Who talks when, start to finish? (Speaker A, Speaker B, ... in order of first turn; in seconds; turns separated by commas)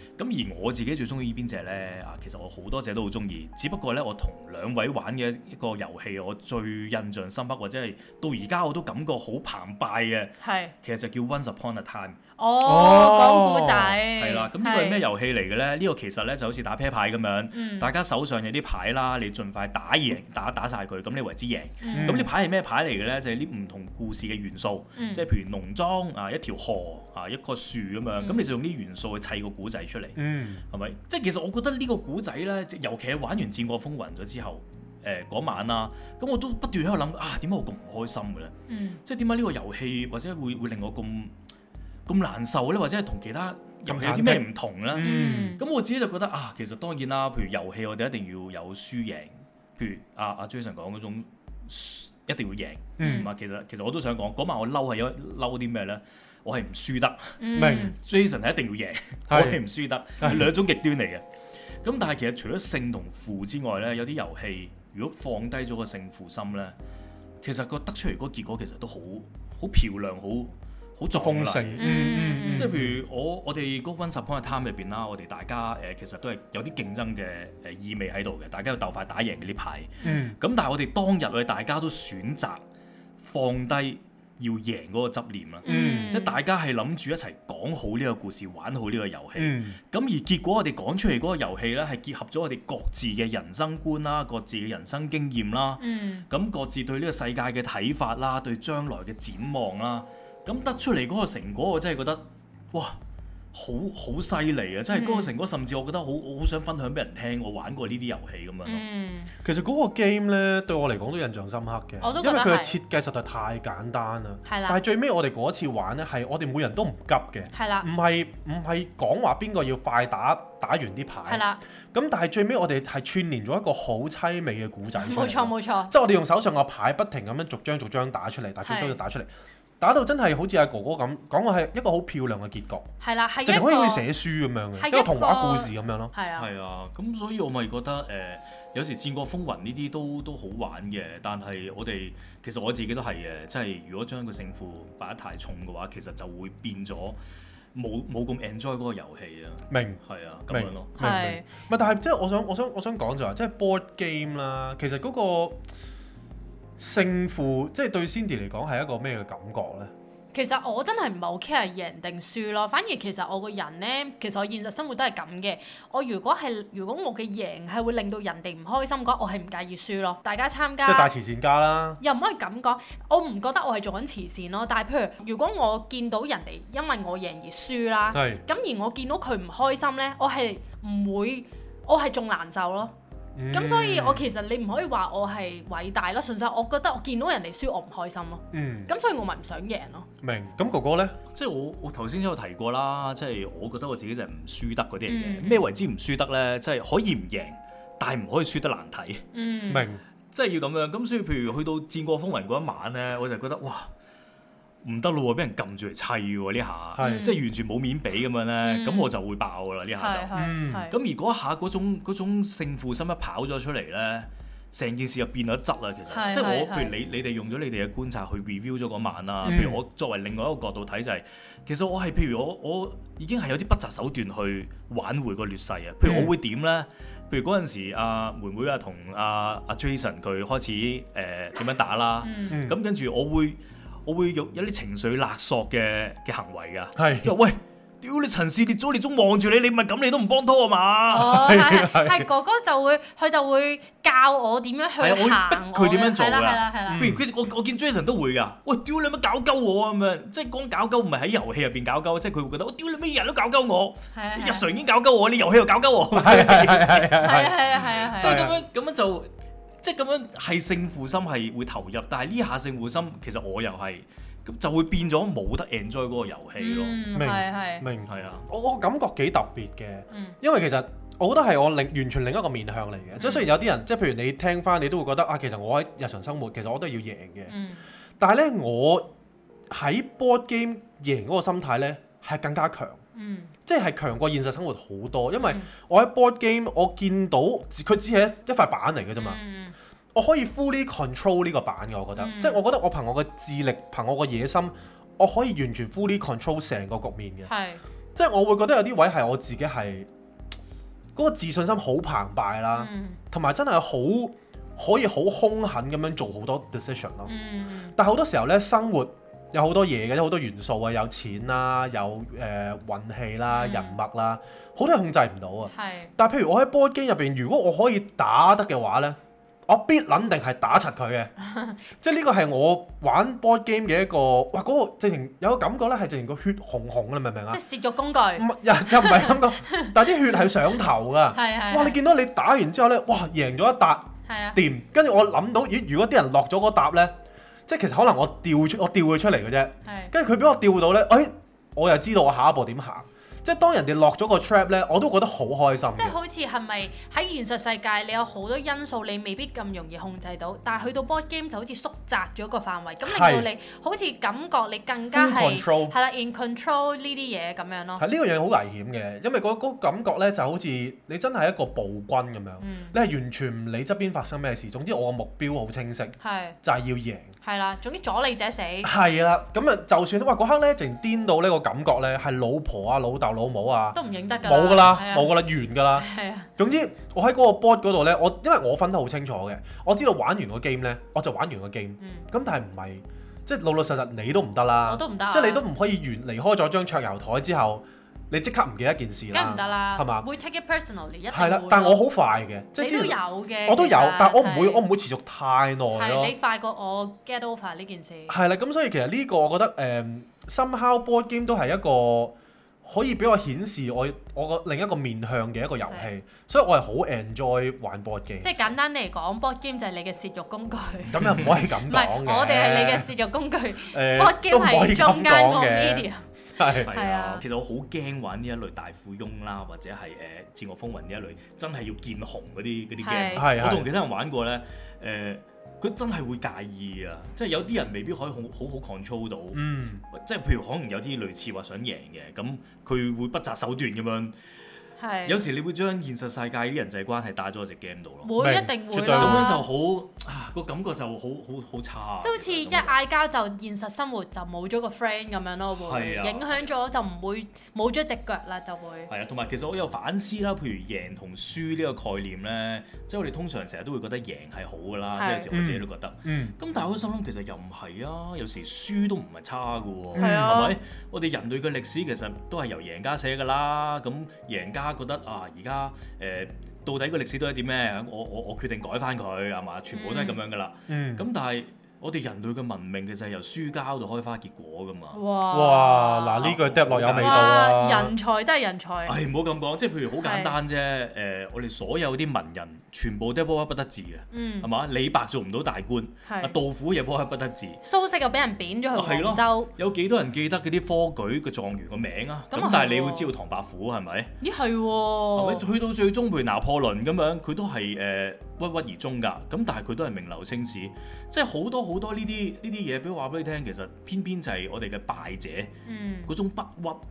Speaker A: 0.2-12.2, Speaker B: 10.4-10.7, Speaker B: 12.4-15.0, Speaker C: 12.7-14.0, Speaker A: 14.2-30.2, Speaker B: 17.5-17.9, Speaker B: 21.8-22.3, Speaker C: 21.9-22.3, Speaker B: 25.0-25.2, Speaker B: 28.2-28.5, Speaker C: 30.2-30.6, Speaker A: 30.7-41.3, Speaker B: 38.7-39.0, Speaker A: 42.1-61.2, Speaker C: 43.9-45.6, Speaker B: 45.0-45.6, Speaker C: 53.0-53.3, Speaker B: 53.0-53.3, Speaker B: 57.4-58.0, Speaker C: 57.6-57.9, Speaker C: 59.3-59.6, Speaker C: 60.2-60.5, Speaker A: 61.8-66.8, Speaker A: 67.4-82.6, Speaker C: 71.2-73.0, Speaker B: 71.8-72.7, Speaker C: 80.0-80.4, Speaker A: 83.2-103.0, Speaker B: 85.7-86.4, Speaker C: 85.7-86.2, Speaker C: 89.4-89.8, Speaker B: 95.8-96.3, Speaker A: 103.5-108.8, Speaker B: 104.9-105.3, Speaker B: 108.7-109.3, Speaker C: 109.4-129.3, Speaker B: 112.0-112.8, Speaker B: 114.5-114.8, Speaker B: 117.5-117.9, Speaker B: 121.3-121.6, Speaker B: 124.9-125.9, Speaker B: 128.6-129.0, Speaker C: 129.8-132.9, Speaker B: 133.0-134.1, Speaker C: 133.4-136.1, Speaker B: 134.8-136.5, Speaker A: 136.4-147.2, Speaker A: 147.7-151.0, Speaker C: 149.7-150.0, Speaker C: 150.5-155.6, Speaker B: 151.0-151.5, Speaker C: 156.8-159.9, Speaker B: 160.3-171.1, Speaker C: 170.8-172.0, Speaker B: 172.0-182.9, Speaker C: 178.1-178.4, Speaker C: 183.4-184.3, Speaker B: 183.5-190.1, Speaker C: 188.5-188.9, Speaker C: 190.2-191.2, Speaker A: 191.3-199.2, Speaker B: 195.1-195.7, Speaker B: 199.3-199.9, Speaker C: 199.7-200.0, Speaker A: 200.3-203.9, Speaker A: 204.8-210.3, Speaker C: 207.0-207.3, Speaker B: 207.0-207.4, Speaker B: 208.6-209.1, Speaker B: 210.0-210.9, Speaker C: 210.3-210.9, Speaker A: 210.9-241.4, Speaker B: 216.1-216.9, Speaker C: 219.4-219.8, Speaker C: 226.0-226.3, Speaker B: 232.2-232.6, Speaker C: 232.5-232.8, Speaker C: 237.0-237.3, Speaker B: 241.1-247.1, Speaker C: 241.2-242.3, Speaker A: 245.0-257.5, Speaker C: 246.9-247.2, Speaker B: 254.1-254.7, Speaker C: 256.1-258.6, Speaker B: 257.2-258.4, Speaker A: 258.1-259.3, Speaker A: 259.8-267.1, Speaker B: 266.6-267.9, Speaker C: 267.1-277.5, Speaker A: 268.1-268.5, Speaker B: 273.2-273.5, Speaker B: 277.5-277.8, Speaker C: 278.2-279.1, Speaker C: 279.7-283.0, Speaker B: 283.1-283.5, Speaker C: 283.7-289.4, Speaker B: 285.4-285.7, Speaker B: 289.2-289.8, Speaker C: 290.1-297.5, Speaker B: 292.2-292.6, Speaker B: 297.5-297.8, Speaker C: 298.1-300.1, Speaker C: 301.1-307.3, Speaker B: 302.7-303.2, Speaker B: 307.3-308.0, Speaker C: 308.0-321.3, Speaker B: 313.5-314.0, Speaker B: 315.7-316.1, Speaker B: 321.4-321.8, Speaker C: 322.0-327.6, Speaker B: 327.5-330.4, Speaker C: 328.4-337.1, Speaker B: 331.3-332.0, Speaker B: 334.3-334.6, Speaker C: 337.7-346.2, Speaker B: 339.9-340.1, Speaker B: 346.0-358.0, Speaker C: 353.1-353.5, Speaker C: 355.1-355.9, Speaker C: 358.0-367.3, Speaker B: 362.6-363.0, Speaker B: 366.2-366.6, Speaker B: 367.4-368.9, Speaker C: 368.8-390.3, Speaker B: 373.9-375.4, Speaker B: 375.9-376.5, Speaker B: 382.0-382.3, Speaker B: 384.9-385.6, Speaker B: 389.3-392.0, Speaker C: 391.3-396.3, Speaker B: 392.8-394.8, Speaker B: 395.9-398.4, Speaker C: 398.3-408.7, Speaker B: 408.4-417.4, Speaker C: 411.1-413.1, Speaker A: 411.2-411.6, Speaker C: 413.9-416.9, Speaker A: 416.8-434.4, Speaker B: 423.0-423.5, Speaker C: 423.4-423.9, Speaker C: 429.5-430.0, Speaker B: 435.0-435.4, Speaker A: 435.3-438.3, Speaker B: 438.2-439.6, Speaker C: 438.4-439.6, Speaker A: 439.1-443.0, Speaker B: 442.2-449.1, Speaker A: 445.8-446.7, Speaker A: 449.1-475.2, Speaker B: 455.2-455.5, Speaker C: 455.5-456.6, Speaker C: 460.1-460.6, Speaker B: 460.2-460.8, Speaker B: 469.9-470.4, Speaker C: 470.9-471.3, Speaker B: 475.1-476.5, Speaker C: 475.5-478.1, Speaker A: 476.4-477.6, Speaker B: 477.2-479.1, Speaker A: 479.1-487.8, Speaker B: 480.2-480.6, Speaker B: 484.3-484.7, Speaker B: 486.3-486.5, Speaker B: 487.8-489.7, Speaker A: 488.9-494.3, Speaker B: 492.5-493.3, Speaker B: 494.4-495.6, Speaker A: 495.4-505.7, Speaker B: 505.9-506.3, Speaker A: 506.3-507.0